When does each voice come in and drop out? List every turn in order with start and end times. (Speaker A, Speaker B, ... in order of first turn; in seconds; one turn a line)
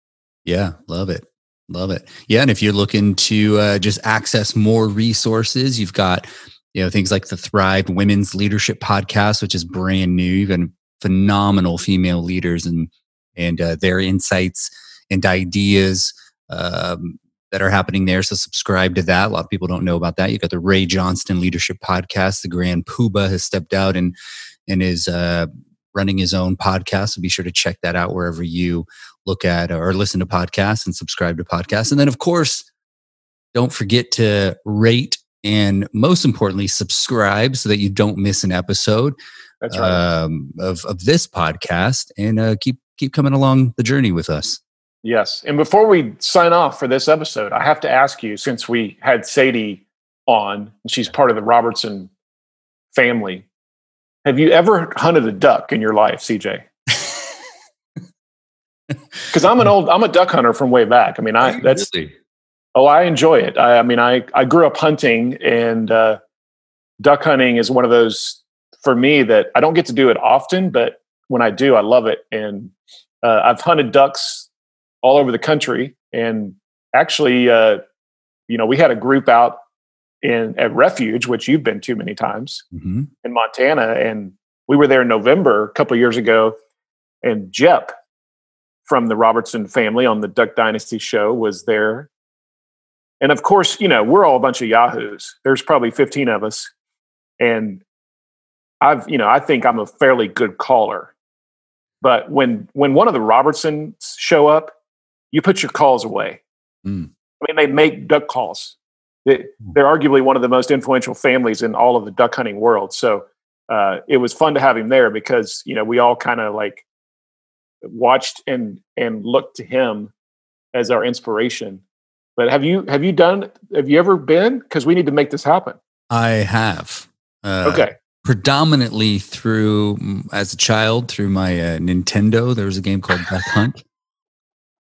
Speaker A: 0.4-24.1
Speaker A: 24.7-32.7
Speaker A: 33.5-39.1
Speaker B: 39.6-40.0
Speaker A: 39.7-44.6
Speaker B: 45.0-52.1
Speaker B: 52.9-53.5
Speaker B: 54.2-56.6
Speaker B: 59.3-61.9
Speaker A: 61.4-62.1
Speaker B: 62.7-66.2
Speaker B: 67.0-74.5
Speaker B: 75.0-77.8
Speaker B: 78.5-79.6
Speaker B: 80.2-82.6
Speaker A: 82.7-83.1
Speaker B: 83.2-86.5
Speaker B: 87.2-87.9
Speaker B: 88.8-92.1
Speaker B: 93.2-96.7
Speaker B: 97.4-97.8
Speaker B: 98.8-101.1
Speaker B: 102.0-104.7
Speaker B: 105.3-106.4
Speaker B: 107.4-116.8
Speaker B: 117.8-120.1
Speaker B: 120.7-121.8
Speaker B: 122.4-125.8
Speaker A: 126.1-133.8
Speaker B: 127.6-127.9